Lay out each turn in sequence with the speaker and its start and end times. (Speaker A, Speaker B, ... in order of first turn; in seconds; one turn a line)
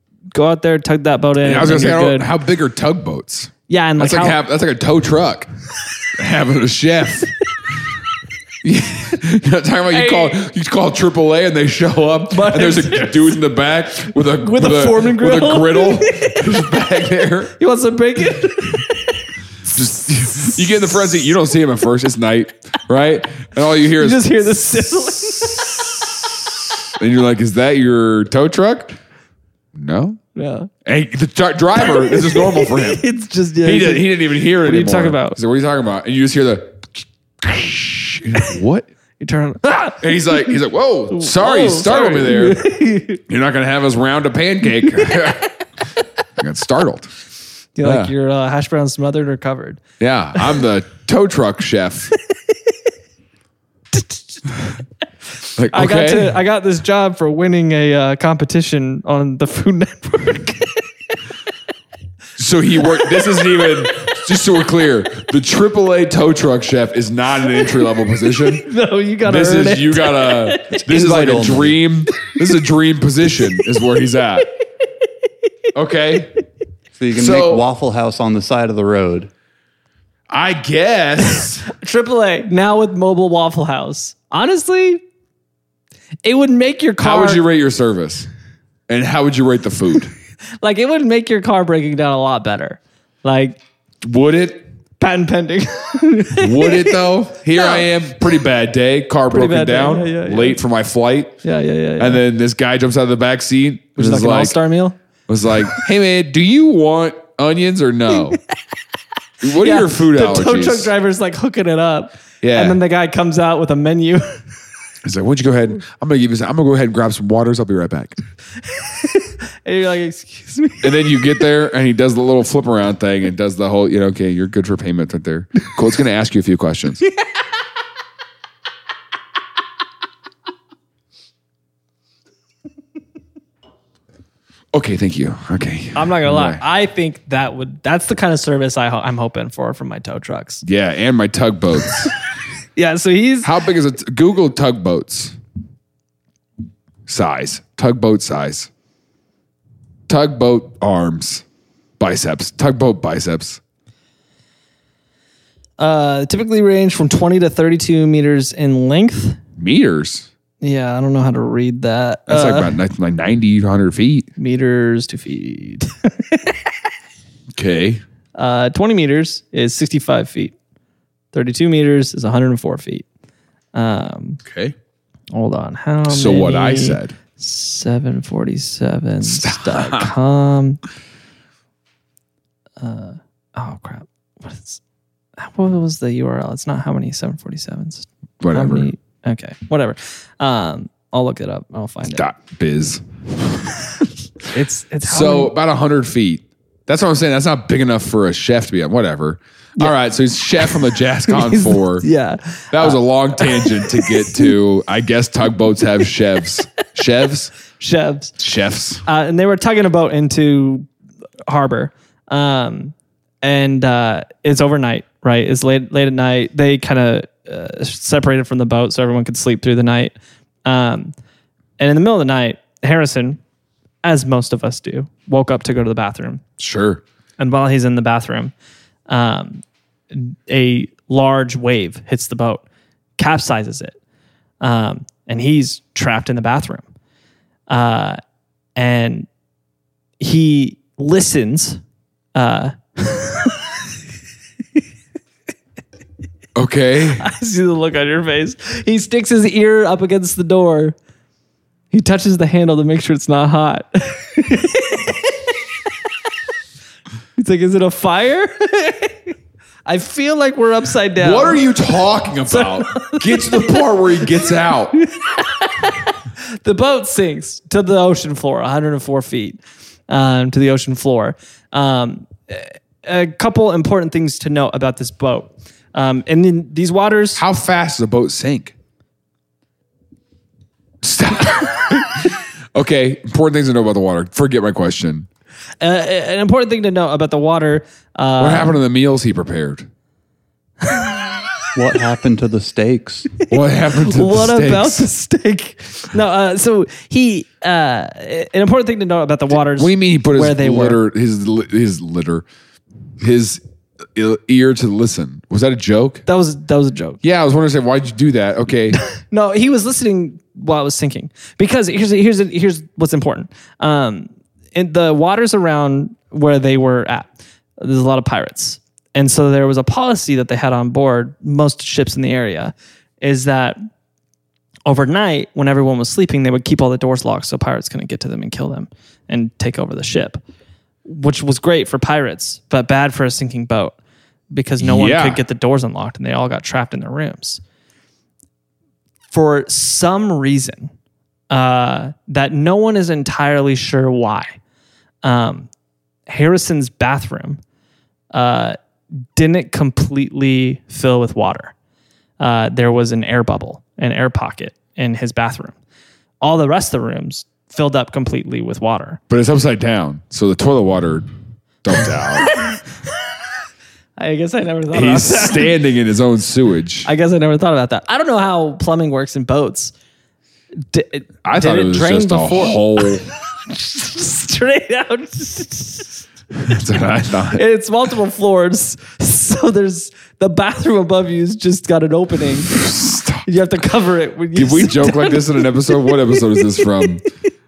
Speaker A: 0.3-2.3
Speaker B: 1.4-5.5
Speaker A: 3.7-4.4
Speaker B: 6.1-7.3
Speaker B: 8.6-17.5
Speaker A: 9.9-10.4
Speaker A: 12.3-13.4
Speaker A: 14.2-16.5
Speaker A: 17.6-20.6
Speaker B: 19.7-29.0
Speaker A: 24.0-26.1
Speaker B: 29.7-30.2
Speaker A: 30.3-30.7
Speaker B: 30.8-33.0
Speaker A: 31.8-35.4
Speaker B: 33.6-38.9
Speaker A: 39.2-40.4
Speaker B: 40.0-42.6
Speaker A: 41.1-43.2
Speaker B: 43.3-45.6
Speaker B: 46.4-47.1
Speaker A: 47.8-49.8
Speaker B: 47.8-48.1
Speaker B: 50.0-52.1
Speaker A: 53.9-54.2
Speaker B: 55.6-56.4
Speaker A: 55.7-60.9
Speaker B: 62.4-68.7
Speaker A: 62.9-64.1
Speaker A: 68.5-70.9
Speaker B: 69.2-74.5
Speaker C: 70.8-71.8
Speaker B: 75.7-76.3
Speaker C: 76.9-79.3
Speaker B: 77.1-77.6
Speaker B: 80.3-81.7
Speaker A: 81.7-85.0
Speaker A: 86.2-87.4
Speaker B: 87.0-88.3
Speaker B: 88.9-90.1
Speaker A: 90.6-93.6
Speaker B: 94.0-94.7
Speaker A: 95.0-97.8
Speaker B: 96.3-101.4
Speaker A: 99.3-100.6
Speaker A: 101.4-102.2
Speaker B: 102.0-104.6
Speaker A: 104.0-105.0
Speaker B: 105.3-108.4
Speaker B: 109.4-110.9
Speaker A: 109.5-114.4
Speaker B: 112.4-112.8
Speaker B: 115.0-118.2
Speaker A: 118.6-121.3
Speaker B: 120.8-127.0
Speaker B: 134.7-136.6
Speaker A: 135.9-140.6
Speaker B: 140.6-142.1
Speaker A: 142.7-143.5
Speaker B: 143.4-145.4
Speaker B: 147.1-148.7
Speaker B: 150.1-151.4
Speaker B: 152.0-153.6
Speaker A: 155.8-159.4
Speaker B: 159.6-160.3
Speaker A: 160.6-162.8
Speaker B: 162.3-164.3
Speaker A: 164.4-166.6
Speaker B: 167.5-168.0
Speaker A: 168.3-170.5
Speaker A: 171.3-173.1
Speaker A: 173.7-174.4
Speaker B: 174.4-174.7
Speaker A: 175.3-180.8
Speaker B: 176.1-177.2
Speaker B: 179.2-180.1
Speaker A: 182.8-184.8
Speaker A: 185.4-192.2
Speaker B: 188.4-188.9
Speaker B: 192.1-193.8
Speaker A: 194.5-195.5
Speaker B: 195.0-202.1
Speaker A: 200.6-204.5
Speaker B: 202.7-207.5
Speaker A: 207.8-208.3
Speaker B: 208.4-209.0
Speaker A: 209.0-210.9
Speaker A: 211.5-221.1
Speaker A: 221.8-223.4
Speaker A: 224.0-226.4
Speaker B: 226.6-227.0
Speaker A: 227.4-228.5
Speaker A: 229.1-232.6
Speaker A: 233.2-234.0
Speaker A: 234.6-236.8
Speaker A: 237.7-238.2
Speaker A: 238.8-239.3
Speaker A: 240.2-241.8
Speaker A: 242.3-243.8
Speaker B: 246.5-247.3
Speaker A: 247.2-251.0
Speaker A: 251.9-255.3
Speaker A: 257.4-259.3
Speaker A: 259.8-261.7
Speaker B: 261.2-264.9
Speaker A: 262.5-277.4
Speaker B: 277.3-278.7
Speaker B: 281.0-285.3
Speaker A: 285.8-288.8
Speaker B: 288.4-289.9
Speaker A: 290.8-291.4
Speaker C: 291.7-293.3
Speaker A: 293.4-301.0
Speaker B: 293.5-295.1
Speaker B: 299.6-302.4
Speaker B: 303.2-303.6
Speaker B: 304.1-306.2
Speaker A: 306.2-307.2
Speaker B: 307.2-309.0
Speaker A: 309.1-323.8
Speaker A: 324.9-330.4
Speaker A: 331.0-334.0
Speaker A: 334.5-337.6
Speaker B: 334.8-335.4
Speaker A: 339.3-340.9
Speaker A: 341.5-344.6
Speaker A: 345.2-345.7
Speaker A: 346.3-347.6
Speaker A: 348.3-348.8
Speaker A: 349.3-351.7
Speaker A: 352.4-355.8
Speaker A: 356.4-359.2
Speaker B: 359.3-361.3
Speaker B: 361.8-362.5
Speaker A: 362.4-362.8
Speaker A: 364.2-365.8
Speaker B: 364.9-367.1
Speaker A: 367.0-369.9
Speaker A: 370.8-376.2
Speaker B: 371.4-373.2
Speaker B: 376.5-377.6
Speaker A: 377.5-382.7
Speaker B: 382.7-383.4
Speaker A: 383.4-387.2
Speaker B: 384.5-387.2